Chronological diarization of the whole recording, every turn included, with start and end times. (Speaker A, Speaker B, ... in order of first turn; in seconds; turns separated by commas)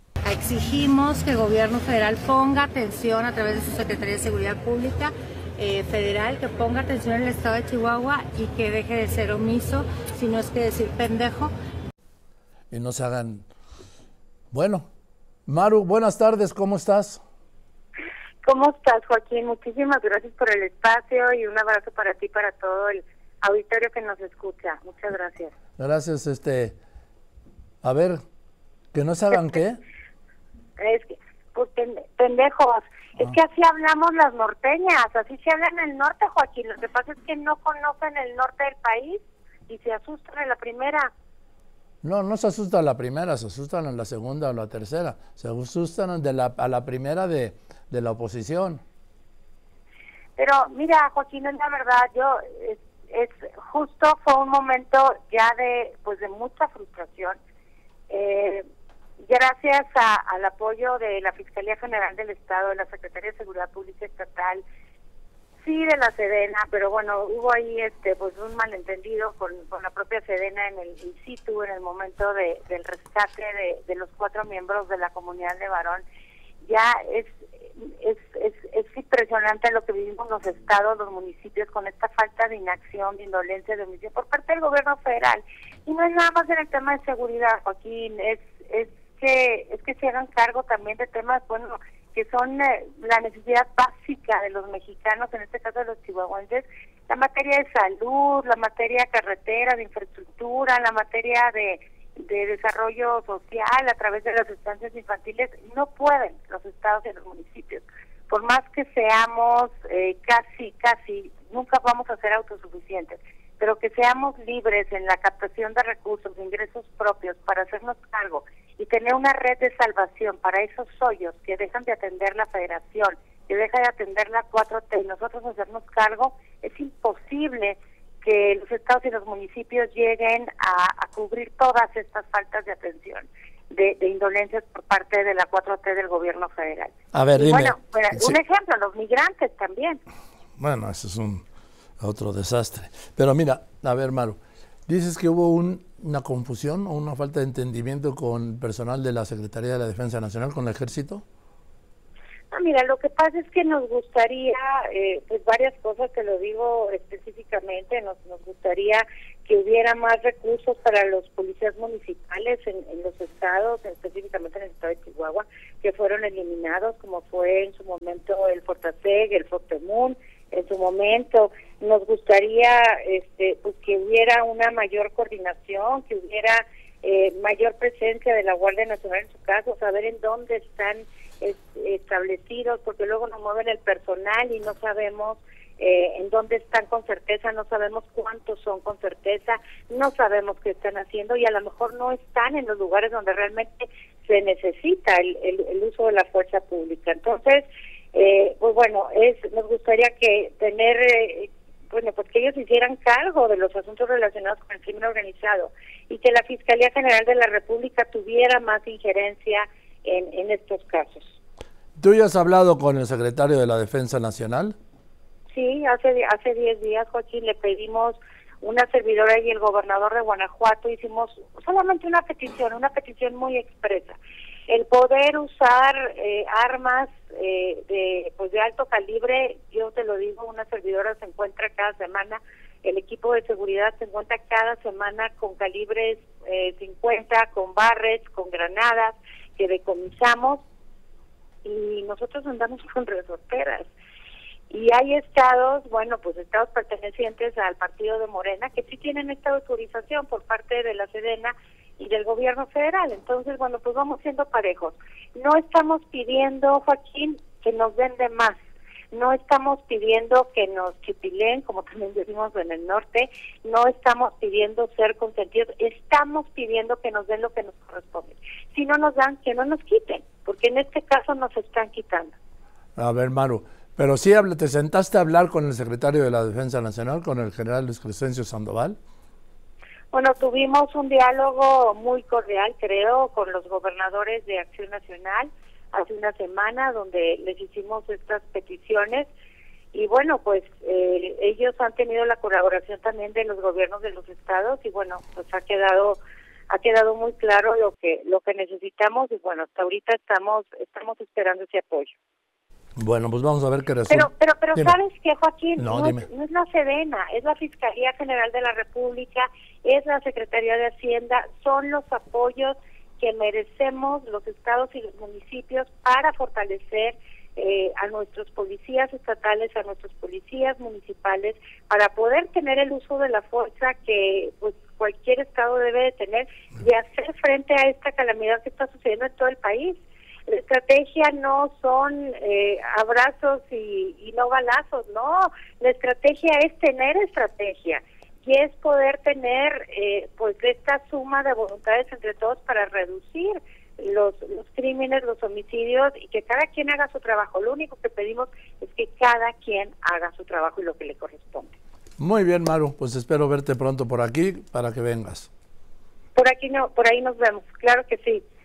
Speaker A: 0.2-11.5, Speaker B: 12.7-13.4, Speaker B: 14.5-14.9, Speaker B: 15.4-17.2, Speaker C: 18.4-25.5, Speaker B: 25.8-26.8, Speaker B: 27.8-28.2, Speaker B: 28.9-29.8, Speaker C: 30.8-41.1, Speaker B: 42.0-48.8, Speaker C: 50.4-57.4, Speaker C: 58.1-58.6, Speaker C: 59.2-64.6, Speaker C: 65.6-76.0, Speaker C: 76.6-140.0, Speaker B: 137.1-138.4, Speaker B: 140.6-141.4, Speaker B: 142.0-151.2, Speaker C: 152.5-211.4, Speaker B: 212.0-214.7, Speaker C: 215.5-240.6, Speaker C: 241.6-243.9, Speaker C: 244.7-258.6, Speaker C: 259.1-272.3, Speaker B: 273.0-279.0, Speaker C: 280.1-289.3, Speaker C: 289.9-302.1, Speaker B: 303.0-305.0, Speaker C: 304.1-351.8, Speaker B: 305.8-306.2, Speaker B: 352.2-355.5, Speaker C: 356.3-358.4